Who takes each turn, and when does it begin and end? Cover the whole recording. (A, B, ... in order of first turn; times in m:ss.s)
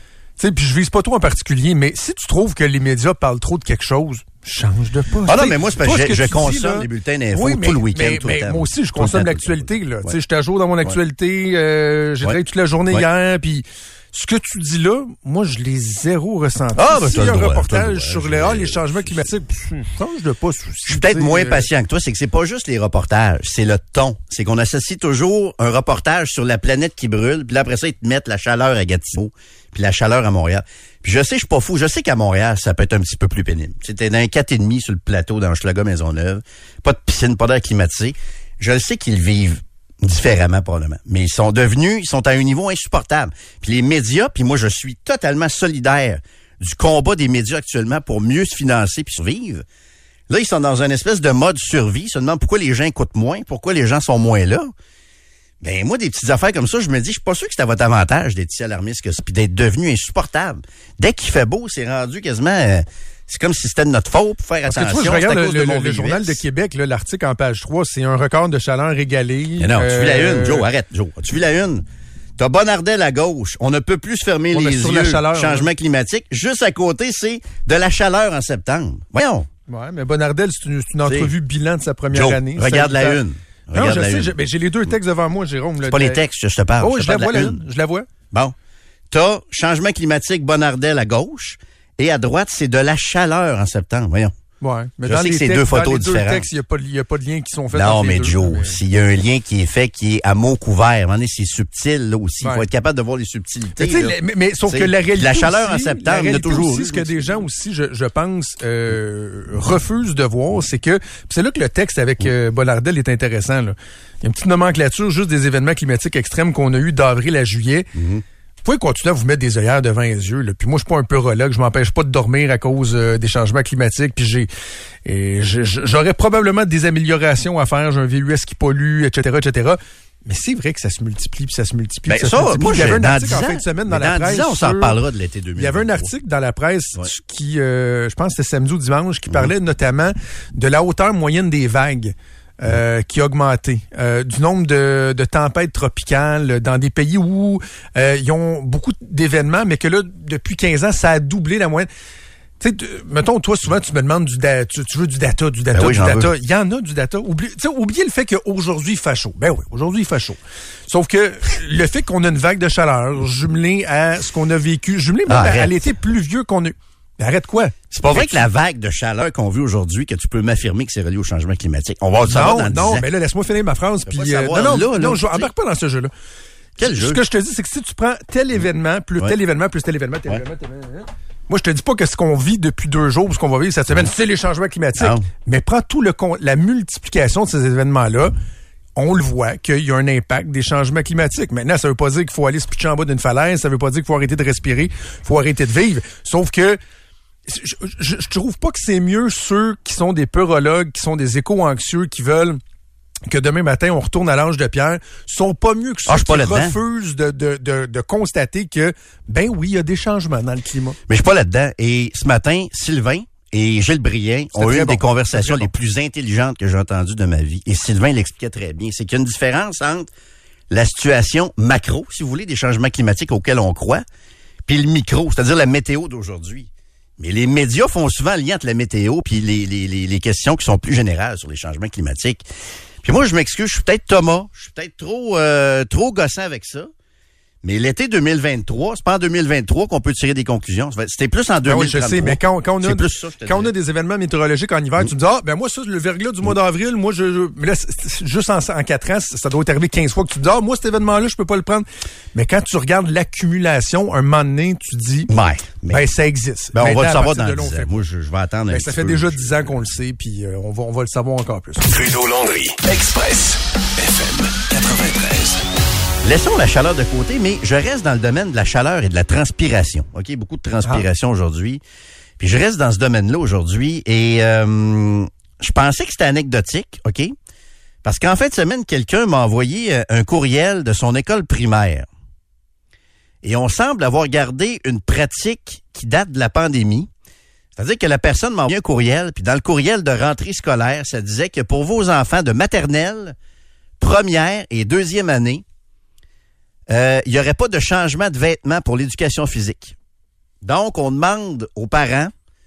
0:00.4-0:21.7 A
0:05.3-0:10.1 B
0:16.8-0:19.2 B
0:20.9-0:49.6 B
0:50.3-0:54.7 B
0:55.6-1:06.4 B
1:04.7-1:10.7 A
1:09.6-1:11.8 B
1:12.4-1:19.5 B
1:14.5-1:15.7 A
1:19.7-1:23.2 A
1:21.0-1:21.3 B
1:22.1-1:24.3 B
1:23.7-1:26.2 A
1:25.8-1:27.6 B
1:26.8-1:28.1 A
1:29.1-1:34.3 B
1:34.6-1:38.8 A
1:35.0-1:36.4 B
1:37.7-1:44.1 B
1:42.4-1:42.7 A
1:43.8-1:57.9 A
1:44.7-1:47.2 B
1:57.9-1:58.2 B
1:58.6-2:04.5 A
2:05.0-2:15.0 A
2:12.1-2:16.1 B
2:15.6-2:31.9 A
2:32.6-2:48.4 A
2:35.7-2:36.3 B
2:45.3-2:45.7 B
2:47.9-2:53.0 B
2:52.2-2:56.1 A
2:54.1-2:55.5 B
2:56.8-2:57.2 B
2:56.8-3:08.3 A
3:05.0-3:05.2 B
3:09.0-3:16.8 A
3:17.4-3:22.6 A
3:23.3-3:31.0 A
3:26.1-3:26.8 B
3:31.1-3:40.1 B
3:34.5-3:35.7 A
3:40.7-3:44.0 B
3:44.7-3:46.7 B
3:47.2-3:52.4 B
3:53.0-3:56.9 B
3:57.6-4:03.7 B
4:01.6-4:15.3 A
4:15.3-4:16.0 B
4:15.9-4:18.0 A
4:16.7-4:19.6 B
4:18.7-4:21.8 A
4:21.9-4:25.6 C
4:26.2-4:31.8 B
4:32.4-4:37.3 B
4:38.0-4:42.1 B
4:43.4-4:47.1 B
4:47.8-4:53.3 B
4:54.0-4:55.6 B
4:56.9-4:59.9 B
5:00.6-5:02.3 B